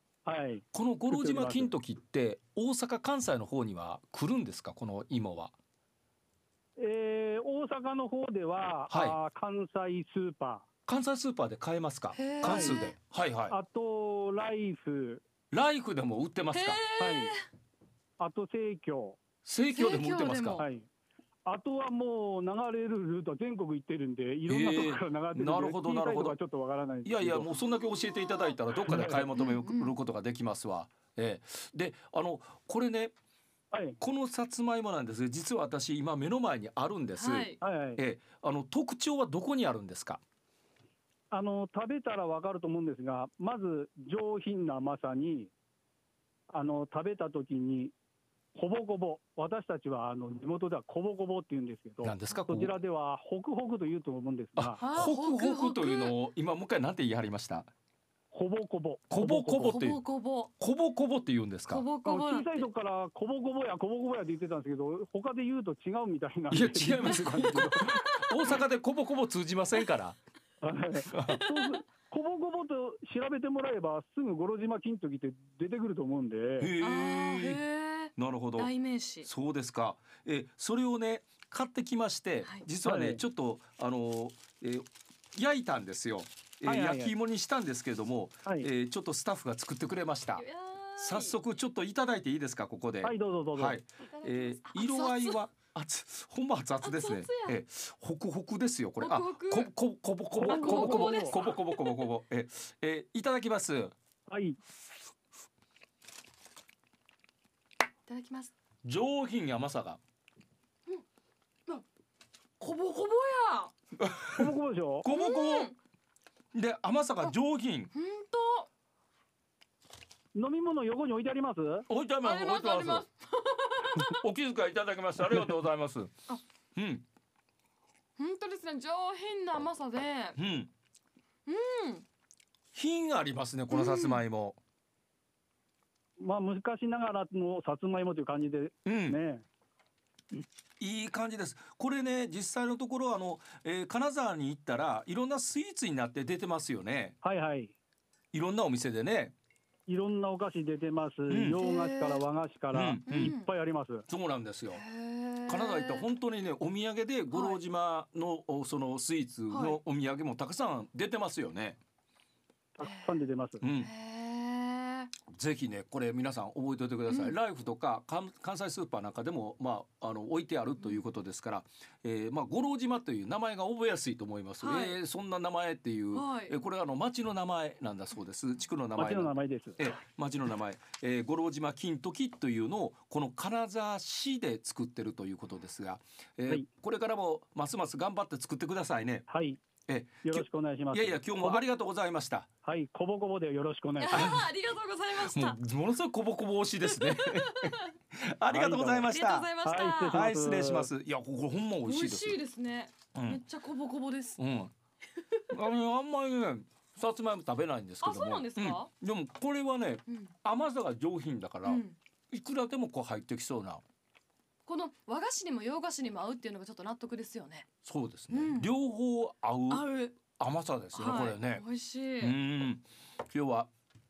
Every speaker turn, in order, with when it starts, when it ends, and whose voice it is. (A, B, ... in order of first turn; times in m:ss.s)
0:00.3-0:01.7 A
0:00.7-0:05.5 B
0:06.8-0:10.6 A
0:08.9-0:09.2 B
0:10.9-0:13.6 B
0:12.2-0:13.0 C
0:12.4-0:12.9 A
0:13.5-0:15.2 A
0:15.5-0:16.8 B
0:16.5-0:17.5 C
0:17.0-0:17.3 A
0:18.2-0:19.2 A
0:19.4-0:20.6 B
0:19.8-0:20.7 C
0:20.6-0:20.9 A
0:21.5-0:27.5 A
0:24.5-0:26.4 B
0:27.0-0:33.1 B
0:28.8-0:29.3 A
0:29.3-0:30.0 C
0:33.7-0:34.0 A
0:34.0-0:40.2 B
0:37.2-0:37.6 C
0:37.6-0:38.0 A
0:41.3-0:45.5 A
0:46.5-0:47.9 A
0:48.6-0:54.9 A
0:52.0-0:52.7 B
0:54.6-0:57.7 B
0:54.8-0:56.2 C
0:58.3-0:59.8 A
0:59.1-1:00.0 B
0:59.6-1:00.5 C
1:00.6-1:01.8 B
1:01.7-1:02.7 C
1:02.0-1:08.2 A
1:06.5-1:10.2 B
1:08.0-1:08.5 C
1:10.6-1:16.7 A
1:11.1-1:11.6 B
1:16.6-1:17.6 B
1:16.8-1:19.3 C
1:18.2-1:18.7 B
1:19.2-1:30.5 B
1:22.8-1:23.2 A
1:26.7-1:27.1 A
1:30.4-1:31.4 C
1:31.0-1:43.9 B
1:33.0-1:33.8 A
1:34.1-1:35.4 C
1:36.8-1:37.6 C
1:39.0-1:39.7 C
1:40.4-1:41.4 A
1:40.4-1:42.0 C
1:44.3-1:44.6 A
1:48.1-1:48.5 C
1:48.8-1:50.0 B
1:52.6-1:53.7 C
1:54.0-1:54.5 B
1:54.3-1:55.1 A
1:55.0-1:55.7 B
1:55.1-1:55.8 C
1:56.5-1:57.9 B
1:57.9-1:58.7 C
2:00.4-2:01.9 A
2:01.9-2:03.0 B
2:02.2-2:04.2 C
2:04.0-2:06.1 B
2:06.8-2:07.0 B
2:08.2-2:10.4 C
2:10.4-2:10.7 B
2:11.5-2:12.1 C
2:12.7-2:14.6 B
2:13.7-2:14.2 C
2:16.2-2:19.4 A
2:18.9-2:19.2 B
2:20.8-2:27.2 B
2:27.2-2:27.7 A
2:28.3-2:29.4 B
2:29.9-2:34.0 A
2:31.3-2:31.6 B
2:31.6-2:32.2 C
2:32.7-2:33.3 B
2:33.1-2:33.5 C
2:34.1-2:34.8 B
2:34.7-2:36.1 C
2:35.5-2:41.8 B
2:37.3-2:37.6 C
2:39.5-2:39.8 C
2:42.8-2:43.6 A
2:42.8-2:43.2 C
2:43.6-2:43.9 B
2:43.8-2:45.1 C
2:45.2-3:09.3 B
2:47.1-2:47.3 C
2:54.6-2:55.0 C
2:56.1-2:56.5 C
2:59.0-2:59.8 A
3:09.3-3:09.6 A
3:09.9-3:12.5 B
3:10.2-3:11.6 A
3:12.6-3:14.3 A
3:14.0-3:15.6 C
3:14.1-3:14.5 B
3:15.2-3:19.5 B
3:16.9-3:17.9 C
3:18.5-3:19.1 A
3:19.1-3:20.2 C
3:19.6-3:20.9 A
3:20.1-3:22.4 B
3:21.8-3:24.4 C
3:23.2-3:23.4 B
3:24.4-3:24.7 B
3:25.5-3:33.8 B
3:28.0-3:28.9 C
3:31.6-3:32.0 C
3:34.7-3:37.7 C
3:37.8-3:41.6 B
3:38.3-3:38.7 C
3:39.7-3:40.2 C
3:40.9-3:42.4 C
3:42.2-3:43.7 B